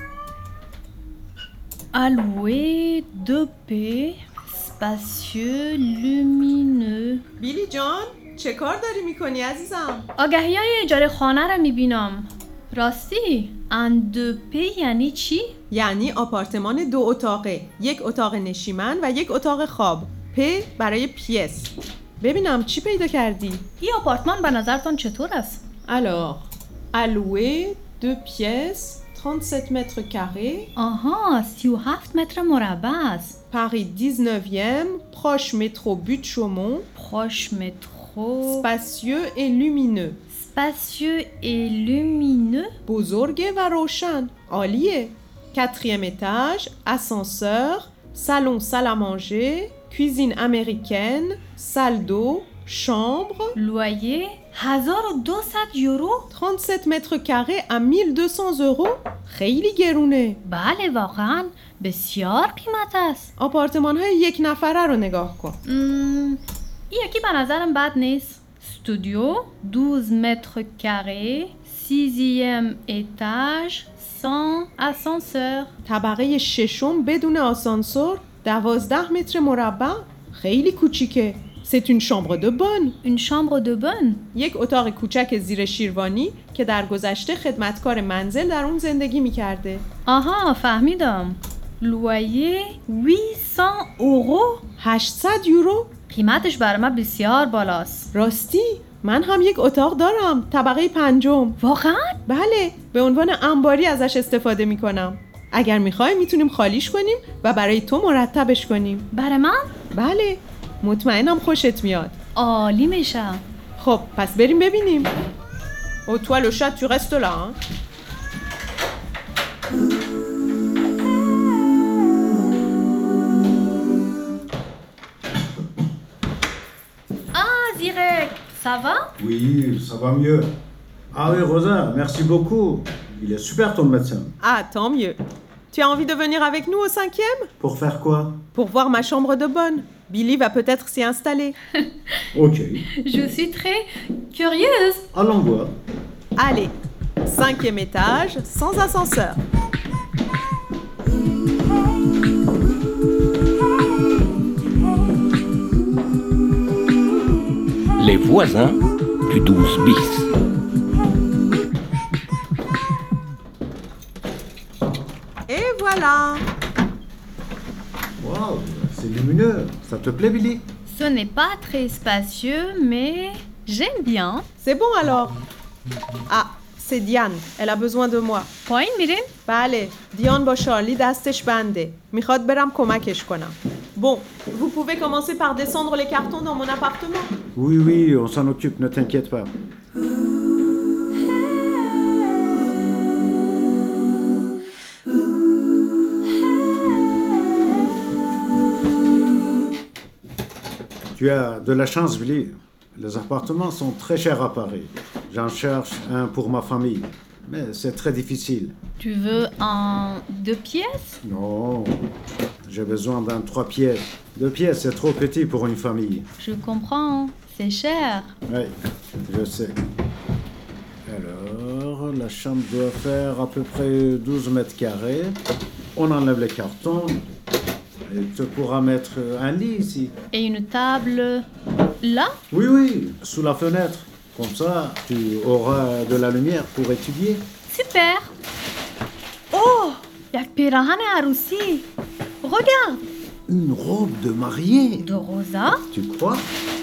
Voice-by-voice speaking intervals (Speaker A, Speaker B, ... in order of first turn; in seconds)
Speaker A: 1.9-7.2, 10.2-15.5, 23.8-25.6, 30.8-33.4, 37.0-38.7, 40.3-42.7, 53.6-56.3, 60.4-63.3, 65.7-75.7, 83.0-84.2, 90.1-94.6, 96.1-98.1, 101.6-102.2, 109.1-109.7, 112.3-113.4, 127.3-129.1, 143.0-145.0, 170.9-174.5, 178.7-179.3, 209.0-211.2, 216.4-218.3, 230.3-231.4, 232.0-232.4, 237.7-238.3, 239.5-241.9, 242.4-243.0, 245.0-245.8
Speaker B: 7.4-10.1, 15.7-23.6, 25.9-30.7, 33.5-36.9, 38.5-40.2, 42.9-53.6, 56.3-60.4, 63.4-65.6, 75.8-83.0, 84.3-89.8, 94.8-95.9, 98.1-101.6, 102.3-109.1, 109.9-112.1, 113.8-115.1, 116.1-117.6, 134.4-135.2, 135.7-137.5, 138.5-141.6, 146.4-149.4, 165.5-166.4, 174.6-175.4, 176.3-178.5, 179.5-187.3
Speaker C: 129.2-130.5, 131.1-134.4, 137.6-138.4, 142.3-142.9, 145.1-145.8, 168.2-170.7, 187.6-189.5, 201.2-208.8, 211.2-212.0, 212.7-216.3, 218.5-219.8, 221.1-225.4, 225.9-227.2, 228.1-230.1, 232.5-237.5, 243.5-245.1, 245.9-246.5
Speaker D: 158.0-160.3